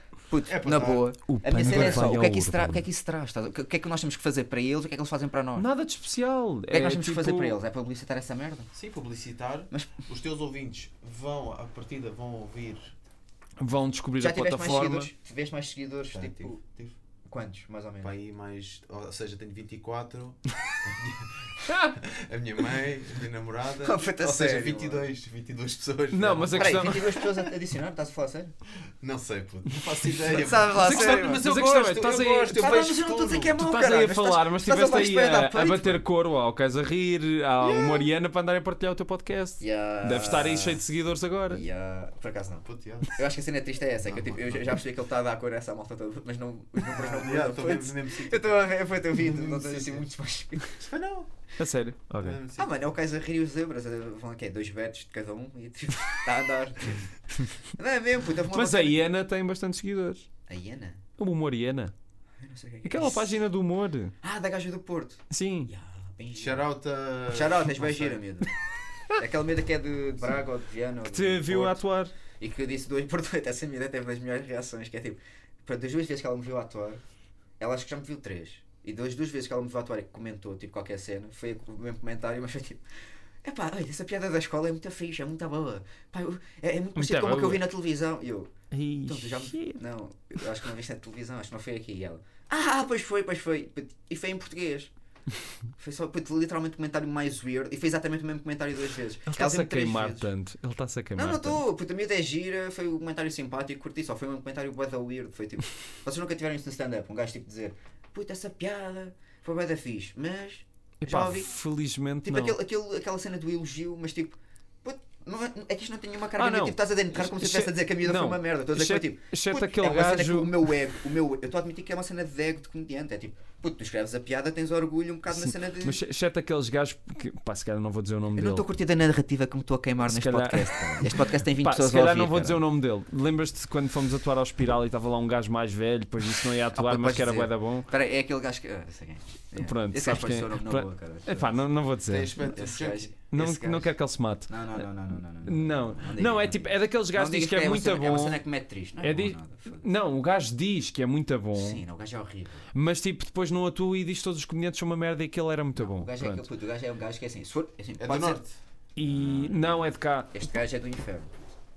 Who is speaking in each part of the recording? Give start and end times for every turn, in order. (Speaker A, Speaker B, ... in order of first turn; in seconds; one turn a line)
Speaker A: 0.3-5.7
Speaker B: 0.5-2.1
Speaker C: 1.2-2.8
Speaker C: 5.5-7.6
Speaker A: 6.7-8.7
Speaker B: 8.7-12.9
Speaker C: 13.6-15.1
Speaker A: 14.2-16.6
Speaker B: 16.1-16.9
Speaker A: 17.3-18.1
Speaker B: 18.0-27.5
Speaker C: 21.6-21.9
Speaker A: 23.8-25.1
Speaker C: 26.1-27.2
Speaker A: 26.6-28.5
Speaker B: 29.0-33.6
Speaker A: 30.2-31.4
Speaker C: 30.7-32.7
Speaker A: 32.5-36.0
Speaker C: 33.5-41.6
Speaker B: 37.6-38.0
Speaker A: 39.6-40.8
Speaker A: 41.5-50.8
Speaker B: 42.6-43.2
Speaker B: 44.0-44.8
Speaker B: 46.9-50.0
Speaker B: 50.8-51.3
Speaker C: 51.6-52.4
Speaker B: 52.2-52.7
Speaker A: 52.6-59.0
Speaker C: 58.5-60.3
Speaker A: 60.5-61.0
Speaker C: 61.2-61.9
Speaker A: 62.4-63.4
Speaker C: 62.8-64.1
Speaker A: 64.2-66.6
Speaker C: 65.3-65.7
Speaker B: 66.3-68.2
Speaker A: 67.3-68.5
Speaker A: 69.1-71.8
Speaker C: 71.1-72.1
Speaker A: 72.4-77.0
Speaker A: 77.6-82.8
Speaker A: 83.4-88.5
Speaker C: 87.0-87.6
Speaker C: 88.7-89.8
Speaker A: 89.0-94.9
Speaker A: 95.8-100.3
Speaker C: 99.3-101.6
Speaker A: 101.2-111.5
Speaker C: 111.0-112.6
Speaker A: 112.2-126.0
Speaker C: 116.4-120.6
Speaker C: 125.3-128.7
Speaker A: 128.3-132.6
Speaker C: 130.0-137.9
Speaker A: 136.7-141.6
Speaker C: 139.6-142.3
Speaker B: 142.1-143.1
Speaker A: 142.4-143.9
Speaker C: 143.3-144.9
Speaker A: 144.5-149.8
Speaker C: 145.4-148.4
Speaker C: 149.0-151.8
Speaker A: 151.5-152.7
Speaker C: 152.7-156.4
Speaker A: 155.8-158.4
Speaker B: 158.0-158.5
Speaker C: 158.9-160.3
Speaker A: 159.0-161.4